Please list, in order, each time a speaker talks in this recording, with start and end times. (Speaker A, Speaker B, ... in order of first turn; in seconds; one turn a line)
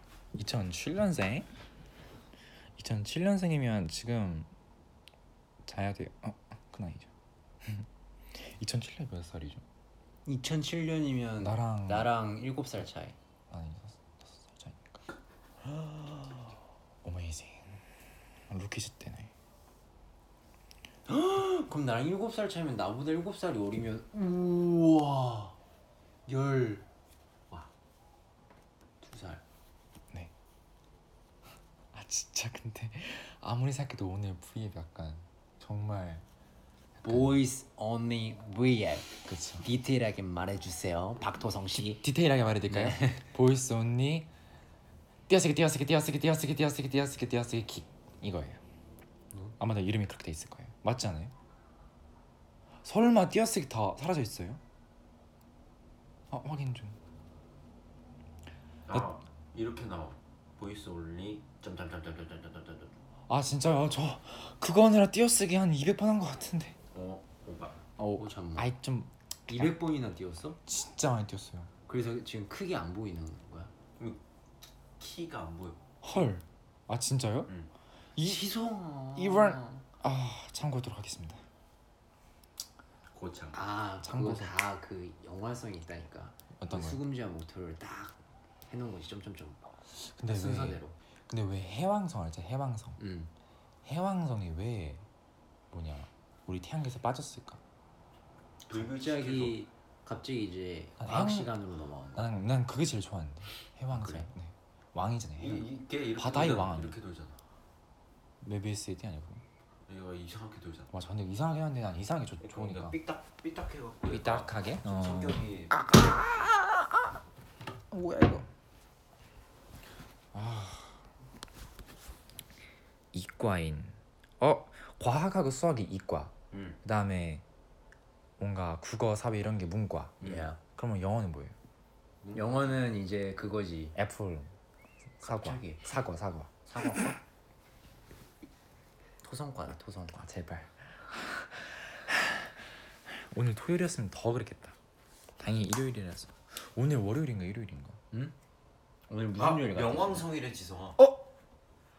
Speaker A: 0.3-1.5
Speaker A: 2.8-4.5
Speaker A: 5.7-7.1
Speaker A: 7.6-9.6
Speaker B: 10.3-13.2
Speaker A: 11.4-12.1
Speaker A: 13.5-15.0
Speaker A: 16.0-16.3
Speaker A: 17.0-17.8
Speaker A: 18.5-19.3
Speaker B: 21.1-25.6
Speaker B: 26.3-26.9
Speaker B: 29.0-29.4
Speaker A: 31.9-36.2
Speaker A: 37.0-37.4
Speaker B: 37.0-42.0
Speaker A: 39.3-39.7
Speaker A: 42.0-44.3
Speaker B: 42.7-43.2
Speaker A: 45.3-48.6
Speaker A: 49.6-51.3
Speaker A: 52.8-54.6
Speaker A: 56.3-57.0
Speaker C: 58.9-63.0
Speaker A: 63.3-66.8
Speaker C: 66.9-67.9
Speaker A: 68.0-69.8
Speaker B: 68.2-68.7
Speaker B: 69.5-70.6
Speaker A: 70.7-71.7
Speaker B: 71.9-73.7
Speaker C: 75.0-75.8
Speaker A: 76.0-77.5
Speaker A: 78.2-78.5
Speaker B: 78.2-79.8
Speaker A: 79.2-81.4
Speaker C: 83.1-83.6
Speaker B: 83.5-89.7
Speaker A: 84.0-84.5
Speaker A: 86.6-87.0
Speaker A: 90.0-93.0
Speaker B: 90.3-91.0
Speaker B: 93.0-93.3
Speaker A: 93.8-95.0
Speaker A: 95.7-97.6
Speaker C: 98.7-99.6
Speaker B: 98.7-102.3
Speaker A: 101.0-101.6
Speaker A: 102.2-107.0
Speaker B: 104.0-104.3
Speaker C: 105.4-107.4
Speaker A: 108.4-109.4
Speaker C: 109.9-110.9
Speaker A: 110.9-113.0
Speaker C: 112.4-116.3
Speaker A: 114.1-117.2
Speaker A: 117.9-118.5
Speaker A: 120.3-121.0
Speaker A: 123.1-127.4
Speaker C: 126.5-126.8
Speaker A: 128.4-131.5
Speaker C: 130.2-130.5
Speaker B: 130.2-130.6
Speaker C: 132.2-132.8
Speaker B: 132.3-134.0
Speaker A: 133.9-134.5
Speaker A: 135.2-136.6
Speaker B: 135.2-135.8
Speaker B: 136.7-137.2
Speaker B: 139.2-140.2
Speaker A: 140.2-142.6
Speaker A: 143.1-144.8
Speaker A: 145.4-148.0
Speaker B: 149.1-150.3
Speaker C: 149.4-151.0